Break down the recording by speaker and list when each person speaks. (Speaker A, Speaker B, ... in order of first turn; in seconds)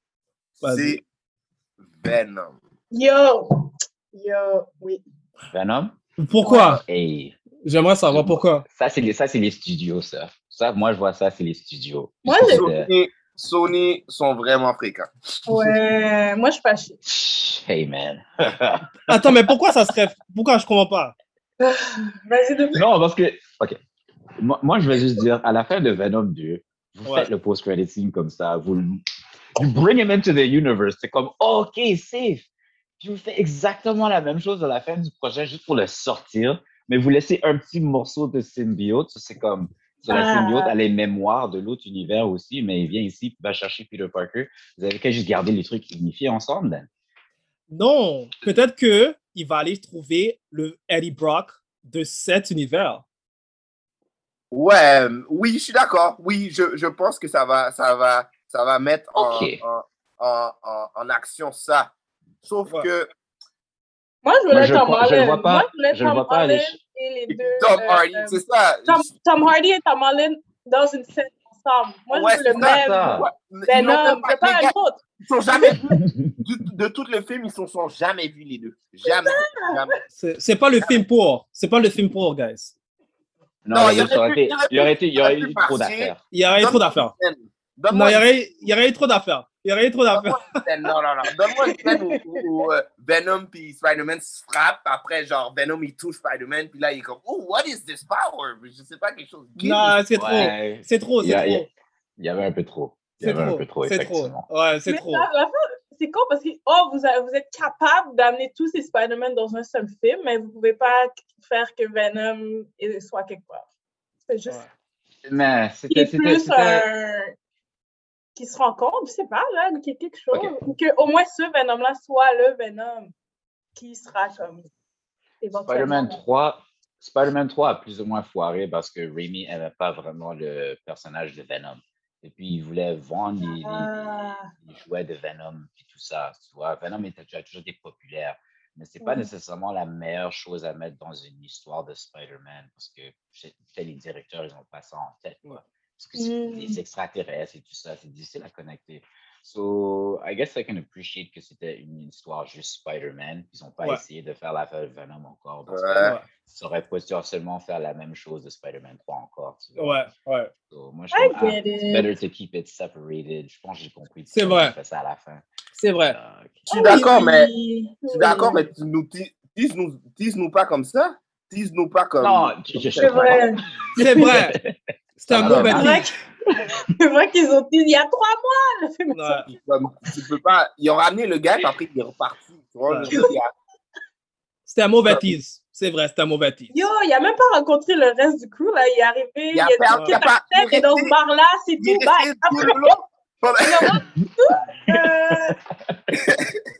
Speaker A: 0.6-1.0, 1.8-2.5, 12.5-15.7, 54.5-61.9, 62.4-63.1, 67.6-69.1, 72.1-80.0, 83.7-88.2, 90.1-100.5, 155.7-156.2, 166.7-167.5, 168.1-173.4, 175.4-175.8, 179.6-183.5, 189.5-191.1, 191.8-194.0, 196.1-196.6
Speaker B: 0.6-1.0, 6.2-6.8, 7.6-8.6, 19.1-21.1, 47.7-53.0, 80.2-82.7, 86.3-87.1, 87.9-90.6, 91.7-92.0, 99.6-101.7, 103.2-105.2, 156.0-156.3, 159.8-160.5, 164.3-164.7, 165.7-166.2, 174.0-174.6, 175.2-176.1, 179.1-179.5, 182.9-183.1, 184.7-186.8
Speaker C: 2.9-5.0, 12.2-12.7, 15.4-17.0, 21.6-22.8, 40.1-40.7, 64.2-75.8, 79.0-79.8, 104.9-113.7, 114.3-114.6, 115.9-117.3, 118.3-123.1, 123.8-124.7, 125.4-126.2, 133.4-134.5, 139.0-139.3, 146.2-146.8, 161.1-162.1, 166.7-168.7, 173.0-174.3, 175.7-179.6, 186.7-193.0, 193.6-195.6
Speaker D: 5.5-7.3, 8.1-12.9, 17.0-19.3, 22.7-23.8, 24.4-29.0, 29.6-32.5, 33.0-46.9, 59.1-59.6, 64.5-66.8, 72.5-73.3, 83.6-86.2, 100.1-101.7, 102.2-104.5, 115.2-116.9, 125.5-133.9, 134.6-160.0, 160.7-165.4, 166.0-166.7, 172.2-174.7, 175.3-176.1, 195.3-196.0